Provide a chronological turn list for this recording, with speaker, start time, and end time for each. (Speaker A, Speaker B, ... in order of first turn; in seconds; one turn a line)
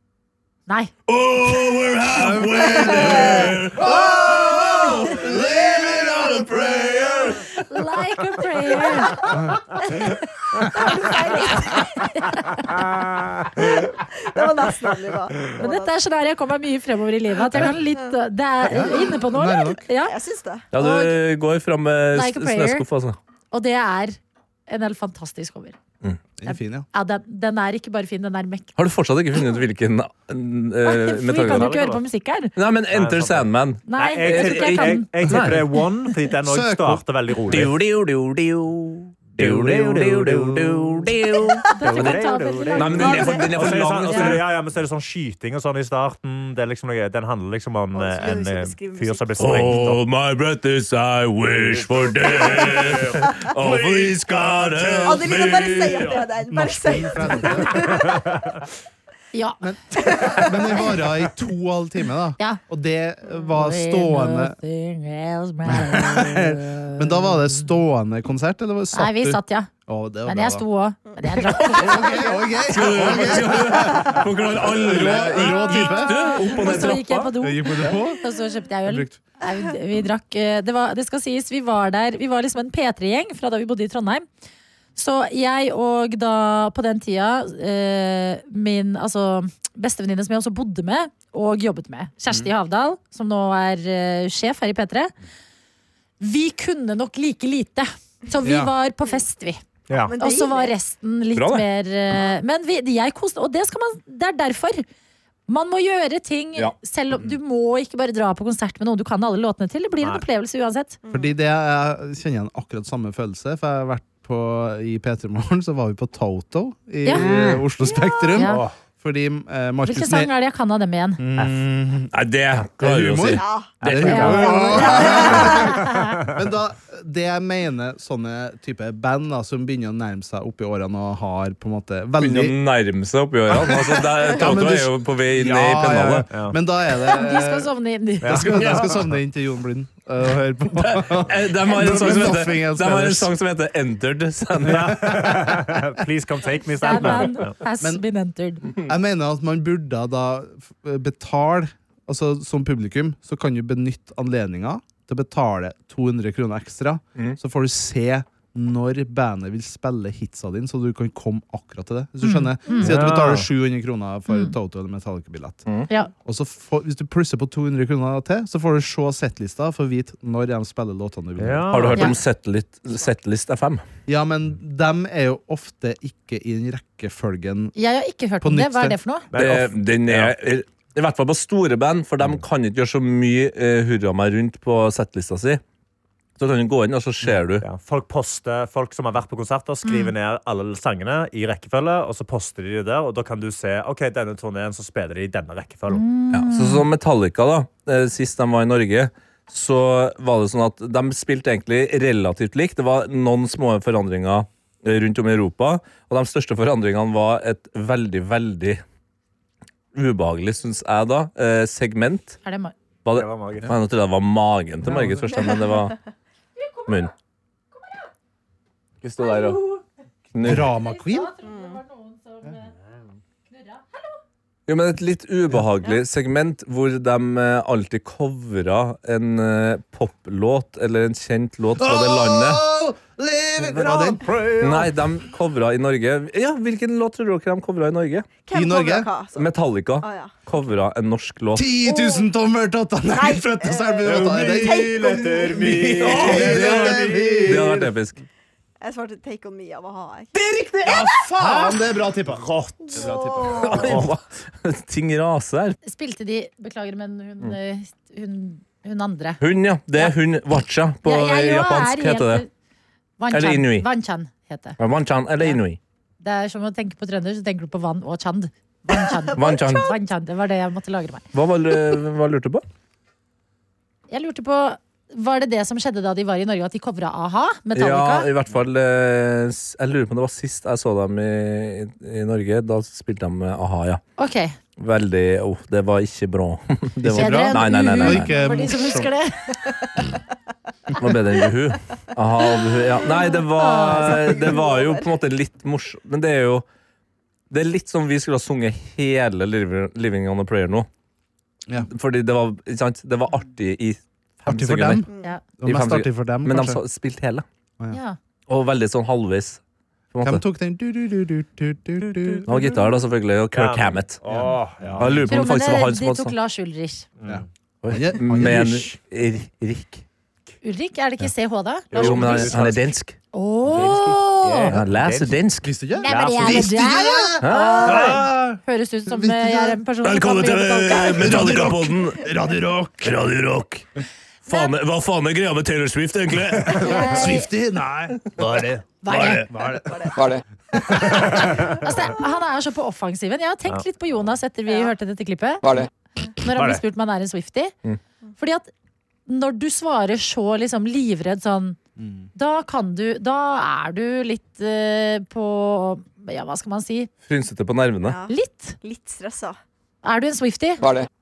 Speaker A: 0.7-0.9
Speaker B: 1.1-7.4
Speaker C: 2.2-5.4
Speaker A: 7.6-9.3
Speaker C: 9.3-9.6
Speaker A: 10.6-12.8
Speaker D: 13.8-15.9
Speaker A: 15.6-20.1
Speaker C: 18.6-19.8
Speaker D: 20.0-20.7
Speaker B: 20.7-23.2
Speaker A: 20.7-21.2
Speaker A: 22.1-22.9
Speaker A: 23.5-25.8
Speaker C: 26.4-26.9
Speaker A: 26.4-28.7
Speaker B: 28.8-31.7
Speaker A: 29.3-29.6
Speaker A: 30.8-32.5
Speaker E: 31.5-32.0
Speaker B: 32.5-35.7
Speaker E: 32.9-37.7
Speaker A: 33.9-36.1
Speaker C: 36.4-37.6
Speaker B: 37.5-42.2
Speaker E: 39.3-41.1
Speaker E: 41.7-50.0
Speaker A: 41.7-44.4
Speaker B: 42.7-44.4
Speaker D: 47.9-49.5
Speaker B: 49.4-56.2
Speaker E: 51.5-53.2
Speaker D: 52.3-52.8
Speaker C: 54.8-55.2
Speaker D: 55.0-58.2
Speaker C: 56.5-57.9
Speaker A: 59.3-59.6
Speaker C: 59.6-64.6
Speaker D: 60.1-60.3
Speaker A: 63.3-67.5
Speaker C: 65.7-70.7
Speaker A: 68.9-69.7
Speaker A: 70.2-72.5
Speaker C: 71.6-76.8
Speaker B: 72.7-77.3
Speaker A: 75.4-84.2
Speaker C: 77.3-78.2
Speaker C: 78.8-79.2
Speaker A: 85.0-95.1
Speaker A: 96.2-99.6
Speaker C: 98.4-98.7
Speaker D: 100.0-100.7
Speaker A: 100.2-104.8
Speaker B: 101.3-101.7
Speaker A: 105.5-111.0
Speaker D: 111.0-111.3
Speaker C: 111.1-120.3
Speaker B: 117.3-117.6
Speaker A: 118.3-118.7
Speaker E: 118.4-118.7
Speaker A: 119.8-121.2
Speaker C: 121.2-122.2
Speaker B: 122.1-125.6
Speaker C: 122.8-132.6
Speaker D: 123.3-125.8
Speaker A: 124.0-126.1
Speaker B: 132.2-136.3
Speaker C: 133.5-137.7
Speaker E: 136.3-136.6
Speaker A: 137.0-138.6
Speaker E: 138.2-139.1
Speaker C: 138.2-143.3
Speaker B: 140.8-144.9
Speaker E: 144.6-147.5
Speaker C: 144.6-145.8
Speaker A: 146.8-148.7
Speaker C: 148.8-171.9
Speaker A: 162.2-162.9
Speaker E: 162.8-163.5
Speaker A: 164.3-164.5
Speaker E: 171.4-172.1
Speaker B: 171.7-173.8
Speaker C: 174.1-177.7
Speaker A: 177.8-179.3
Speaker C: 178.4-179.0
Speaker E: 179.3-180.3
Speaker B: 179.3-185.6
Speaker B: 186.4-187.7
Speaker E: 187.2-196.0
Speaker A: 189.8-190.1
Speaker A: 195.9-196.9
Speaker B: 196.3-208.8
Speaker B: 209.9-212.4
Speaker A: 212.4-212.7
Speaker B: 213.0-215.9
Speaker E: 213.1-213.7
Speaker C: 214.8-215.3
Speaker D: 215.4-215.8
Speaker A: 216.6-217.1
Speaker A: 217.7-218.1
Speaker B: 219.0-219.6
Speaker A: 219.2-219.8
Speaker B: 220.3-220.7
Speaker C: 220.4-221.3
Speaker A: 220.7-222.7
Speaker D: 221.4-221.8
Speaker A: 223.5-224.2
Speaker B: 224.7-232.6
Speaker C: 231.8-234.8
Speaker B: 233.6-233.9
Speaker E: 233.8-234.7
Speaker B: 234.6-238.3
Speaker D: 238.4-240.3
Speaker C: 238.5-239.1
Speaker B: 239.3-241.7
Speaker C: 241.5-247.9
Speaker D: 241.8-242.3
Speaker D: 243.1-245.8
Speaker E: 244.0-247.7
Speaker B: 246.0-248.2
Speaker D: 248.8-250.3
Speaker B: 250.3-251.7
Speaker C: 250.9-253.8
Speaker D: 252.8-254.0
Speaker B: 253.6-255.8
Speaker E: 253.8-254.1
Speaker A: 255.8-259.4
Speaker B: 259.4-262.4
Speaker A: 261.0-262.5
Speaker A: 263.2-264.8
Speaker B: 263.3-263.9
Speaker B: 264.8-265.8
Speaker A: 266.2-271.2
Speaker D: 268.9-269.9
Speaker B: 269.3-269.9
Speaker B: 271.3-272.6
Speaker A: 274.1-278.3
Speaker B: 277.7-284.0
Speaker A: 284.2-284.6
Speaker B: 284.8-288.6
Speaker C: 286.9-289.1
Speaker A: 287.1-290.0
Speaker B: 291.0-296.6
Speaker A: 293.4-294.3
Speaker D: 293.8-295.1
Speaker B: 297.5-300.9
Speaker B: 301.8-305.0
Speaker C: 304.4-306.8
Speaker D: 305.0-305.3
Speaker B: 305.6-307.4
Speaker A: 307.9-308.2
Speaker B: 308.5-309.6
Speaker B: 310.1-310.4
Speaker C: 310.2-312.8
Speaker E: 312.1-312.4
Speaker B: 312.4-314.2
Speaker E: 313.5-315.3
Speaker C: 314.3-315.1
Speaker B: 315.0-316.3
Speaker A: 315.3-317.1
Speaker E: 317.2-317.4
Speaker C: 317.3-318.9
Speaker B: 317.8-320.0
Speaker A: 320.6-322.5
Speaker E: 321.9-322.9
Speaker B: 321.9-323.2
Speaker A: 323.3-324.8
Speaker E: 323.6-325.4
Speaker B: 324.7-326.6
Speaker C: 325.6-329.8
Speaker A: 326.0-331.7
Speaker B: 327.4-328.2
Speaker B: 330.0-332.3
Speaker C: 331.1-333.2
Speaker B: 333.0-333.8
Speaker B: 334.4-337.0
Speaker A: 334.5-334.7
Speaker C: 336.7-338.9
Speaker A: 336.7-337.5
Speaker A: 339.0-339.4
Speaker B: 339.1-340.4
Speaker C: 339.5-340.1
Speaker D: 339.9-340.1
Speaker C: 340.8-341.3
Speaker A: 341.5-345.8
Speaker A: 346.4-347.7
Speaker E: 346.6-346.8
Speaker A: 348.4-348.7
Speaker A: 349.3-351.8
Speaker C: 352.0-352.3
Speaker A: 352.4-357.1
Speaker B: 357.2-358.2
Speaker D: 358.0-359.6
Speaker A: 358.3-358.8
Speaker A: 360.0-360.9
Speaker B: 360.8-361.1